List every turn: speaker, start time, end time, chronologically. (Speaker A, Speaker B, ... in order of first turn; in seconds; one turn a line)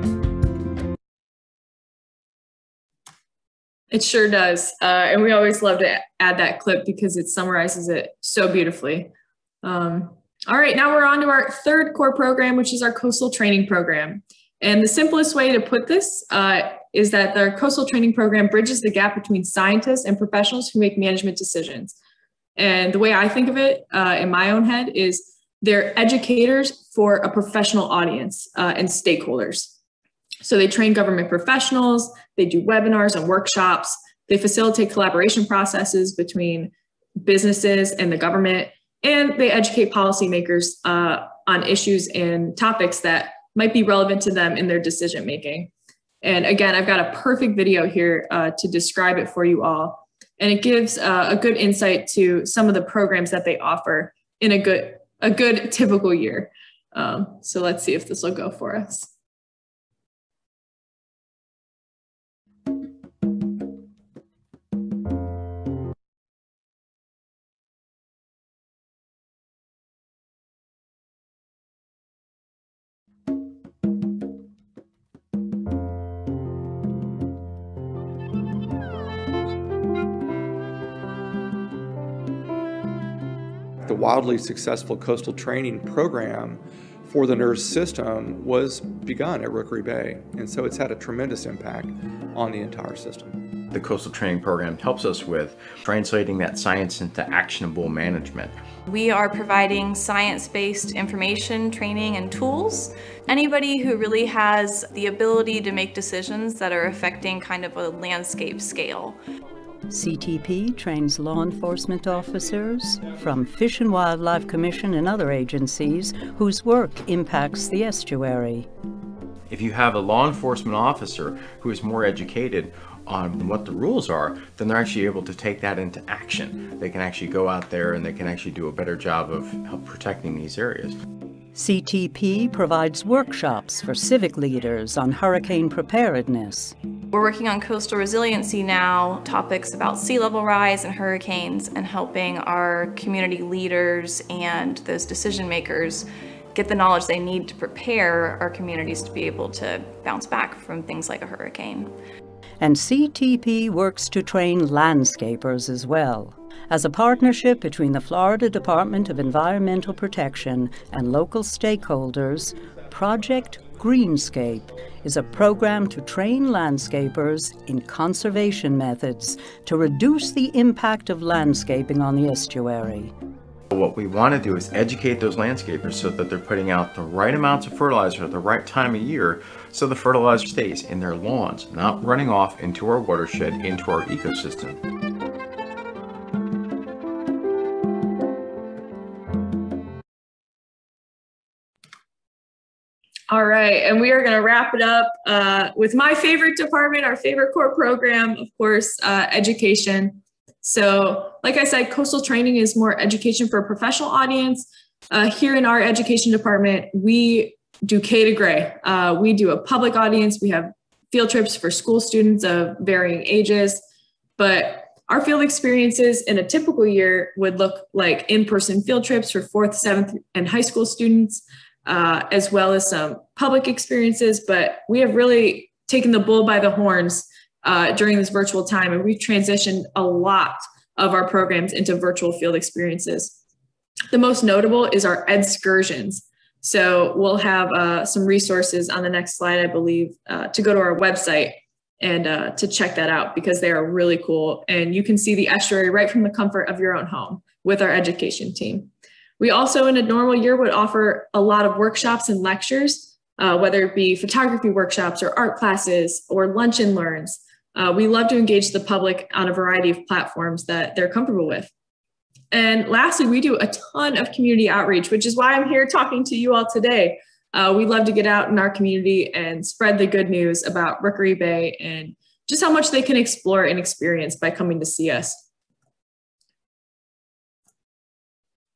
Speaker A: 3.9-9.1
Speaker A: 9.6-21.9
Speaker A: 22.6-29.7
Speaker A: 30.4-45.7
Speaker A: 46.2-59.1
Speaker B: 83.8-93.4
Speaker C: 93.7-98.5
Speaker D: 98.9-109.2
Speaker E: 109.9-118.7
Speaker C: 119.5-131.0
Speaker E: 131.5-136.8
Speaker D: 137.1-151.9
Speaker E: 152.6-173.1
Speaker C: 173.7-184.8
Speaker A: 193.3-213.8
Speaker A: 214.4-233.4
Speaker A: 234.1-261.7
Speaker A: 262.5-275.4